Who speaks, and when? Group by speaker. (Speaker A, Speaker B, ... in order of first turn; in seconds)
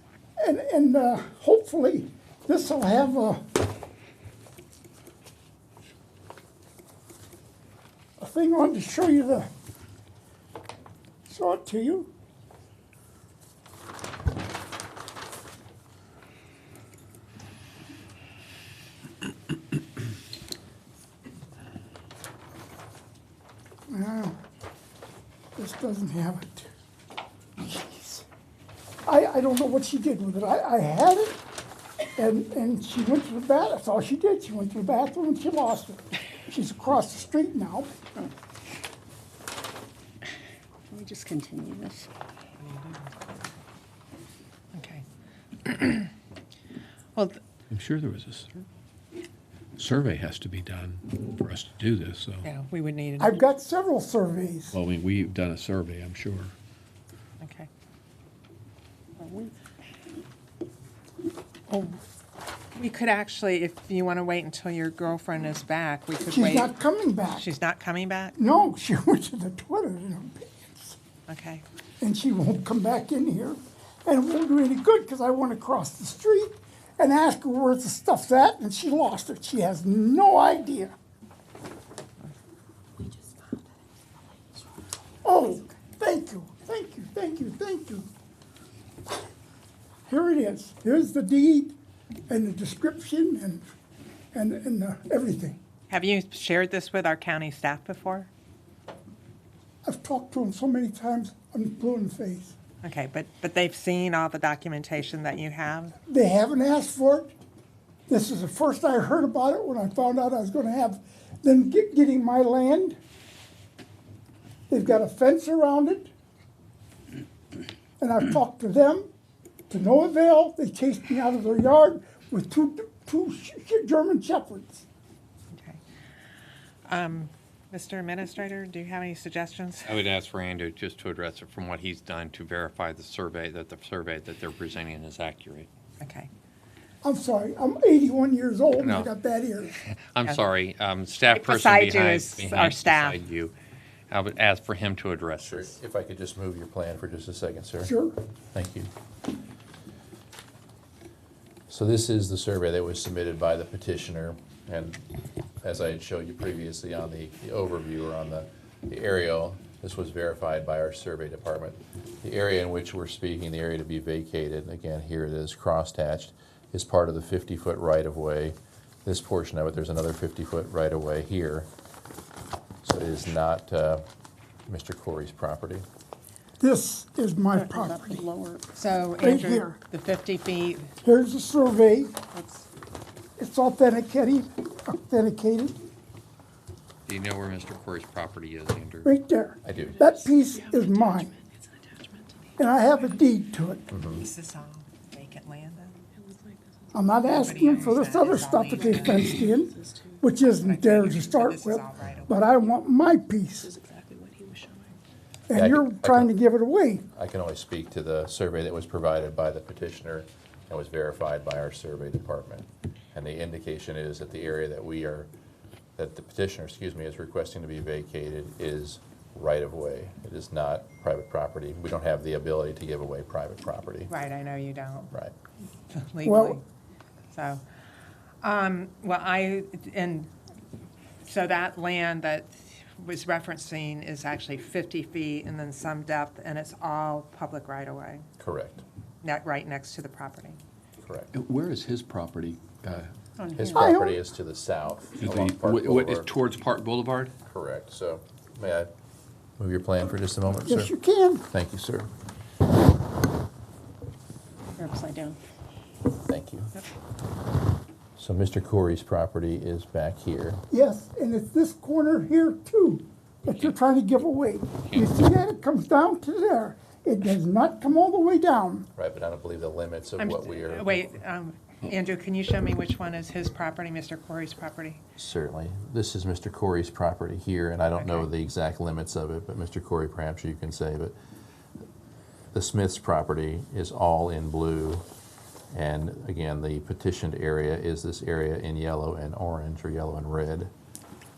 Speaker A: 0.4-3.4, 8.2-9.5, 11.3-12.1, 23.9-24.4, 25.6-26.7, 27.6-28.3, 29.1-31.4, 32.1-37.9, 53.2-54.8, 66.3-67.5, 68.4-71.0, 72.0-81.0, 85.2-88.1, 90.1-91.8, 92.3-93.7, 94.3-95.6, 99.8-102.6, 106.1-107.4, 108.1-113.0, 114.7-116.1, 118.0-119.1, 119.7-124.8, 137.0-139.8, 147.8-148.2, 176.6-178.3, 179.2-179.8, 181.0-182.2, 183.4-185.8, 189.1-191.3, 192.6-193.9, 196.9-203.7, 205.5-207.0, 226.2-226.6, 243.7-244.2, 250.7-251.5, 260.7-268.9
Speaker B: 40.9-42.1, 177.6-178.7, 190.5-192.3, 196.1-196.7, 199.3-200.2, 203.6-204.9, 243.4-243.9, 254.8-255.4
Speaker C: 44.7-45.0, 45.6-46.1, 47.2-47.4, 52.4-53.4, 57.4-57.7, 59.2-59.5, 61.7-62.0, 62.8-66.7, 67.3-68.4, 71.3-71.6, 95.9-98.3, 102.8-106.0, 125.5-125.8, 126.9-130.1, 136.0-136.3, 141.3-143.2, 178.7-180.9, 182.3-182.7, 194.2-196.0, 197.3-199.3, 200.4-202.5, 224.1-225.1, 225.9-226.6, 227.3-227.6, 228.4-230.3, 231.2-238.3, 239.2-240.6, 270.2-275.0, 278.0-278.3
Speaker D: 47.7-48.5, 49.8-52.5, 54.7-56.5, 241.3-243.1, 245.2-247.4
Speaker E: 129.9-135.7, 138.8-139.1, 139.8-143.6, 144.1-145.8, 187.1-189.1
Speaker F: 145.4-147.9, 148.5-148.9, 151.7-155.1, 155.6-171.7, 172.8-174.0, 174.7-175.9, 189.7-190.0, 193.9-194.2, 205.5-206.3, 207.2-215.3, 216.0-224.1, 238.4-238.8, 241.0-241.3, 243.5-246.3, 247.4-248.9, 249.6-250.9, 251.5-252.1, 256.2-256.7, 258.2-260.6, 269.0-271.1, 275.2-281.1, 282.5-285.1, 285.7-290.7